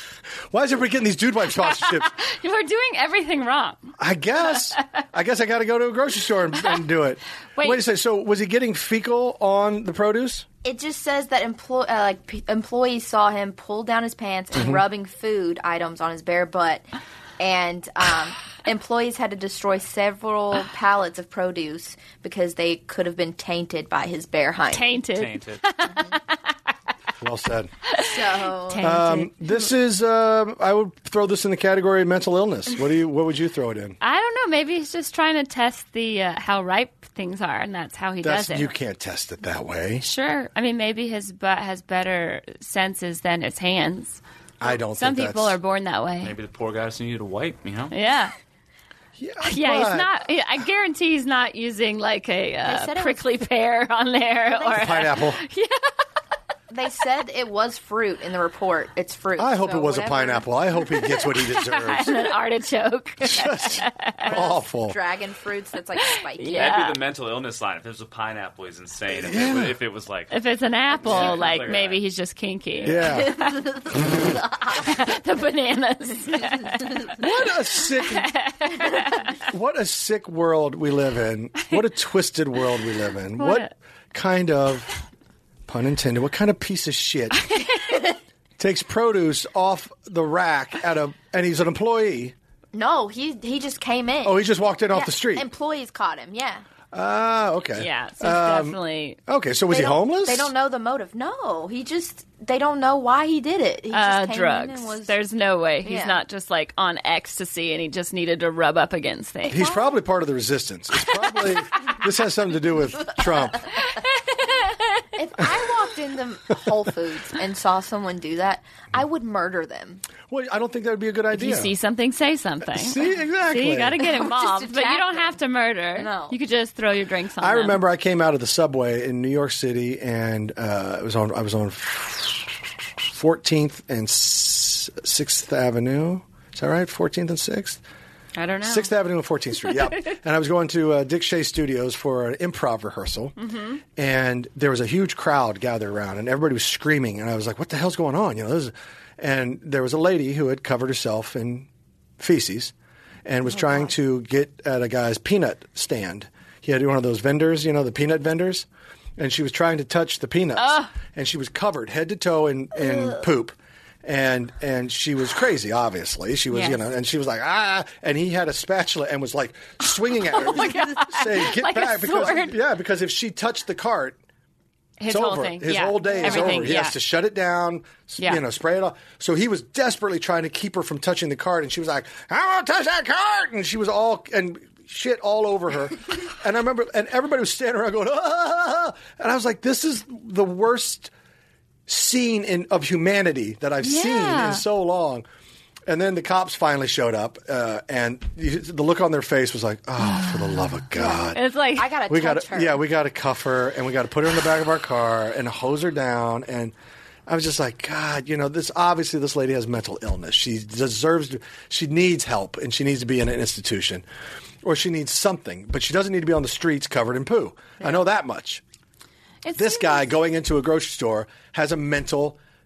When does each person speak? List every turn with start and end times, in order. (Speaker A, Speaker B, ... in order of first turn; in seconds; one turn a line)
Speaker A: 0.5-2.1
Speaker B: 1.6-4.7
Speaker A: 4.0-10.4
Speaker B: 7.5-7.8
Speaker C: 10.6-16.9
Speaker A: 14.5-14.8
Speaker C: 17.4-24.9
Speaker B: 24.7-26.4
Speaker D: 25.1-25.6
Speaker C: 25.9-26.1
Speaker A: 27.2-27.7
Speaker C: 27.9-28.9
Speaker B: 28.7-29.7
Speaker A: 28.8-34.0
Speaker B: 34.0-38.7
Speaker A: 38.2-40.0
Speaker B: 40.0-46.3
Speaker A: 44.6-45.6
Speaker D: 46.2-47.9
Speaker B: 47.9-48.3
Speaker A: 49.2-50.1
Speaker B: 49.4-55.9
Speaker C: 52.6-53.3
Speaker C: 54.5-55.0
Speaker A: 54.7-55.4
Speaker C: 56.7-60.5
Speaker A: 59.4-62.2
Speaker B: 61.2-64.2
Speaker A: 63.2-65.0
Speaker C: 64.2-66.8
Speaker B: 66.3-67.0
Speaker D: 66.5-70.3
Speaker A: 69.1-69.8
Speaker B: 70.3-73.6
Speaker D: 70.9-72.0
Speaker A: 72.8-73.4
Speaker C: 73.2-74.8
Speaker A: 73.9-74.2
Speaker B: 74.7-79.4
Speaker A: 77.2-78.3
Speaker A: 79.5-84.9
Speaker B: 83.4-83.7
Speaker A: 85.7-87.4
Speaker B: 87.4-88.0
Speaker A: 88.6-92.3
Speaker C: 92.7-96.7
Speaker A: 94.2-95.5
Speaker A: 96.9-100.5
Speaker B: 97.8-99.2
Speaker C: 99.7-105.2
Speaker B: 103.9-109.6
Speaker C: 105.8-106.2
Speaker A: 109.5-113.7
Speaker C: 109.5-110.0
Speaker B: 113.9-115.1
Speaker C: 115.2-120.0
Speaker A: 120.3-121.7
Speaker B: 121.3-127.8
Speaker A: 122.6-124.0
Speaker C: 124.0-125.4
Speaker C: 126.0-126.4
Speaker A: 127.4-137.8
Speaker B: 138.3-138.9
Speaker A: 138.6-143.3
Speaker B: 143.4-143.8
Speaker A: 143.9-151.7
Speaker A: 152.2-152.7
Speaker A: 153.2-174.2
Speaker C: 153.6-153.9
Speaker B: 160.6-160.9
Speaker B: 166.5-166.8
Speaker B: 169.9-172.6
Speaker B: 175.0-177.0
Speaker A: 175.1-191.1
Speaker C: 176.1-176.7
Speaker A: 191.9-195.2
Speaker B: 193.8-194.6
Speaker A: 195.8-201.4
Speaker B: 200.1-200.6
Speaker C: 201.0-202.8
Speaker B: 201.3-201.9
Speaker A: 202.1-206.7
Speaker A: 207.3-214.0
Speaker A: 214.6-218.6
Speaker B: 219.4-220.1
Speaker A: 219.5-222.4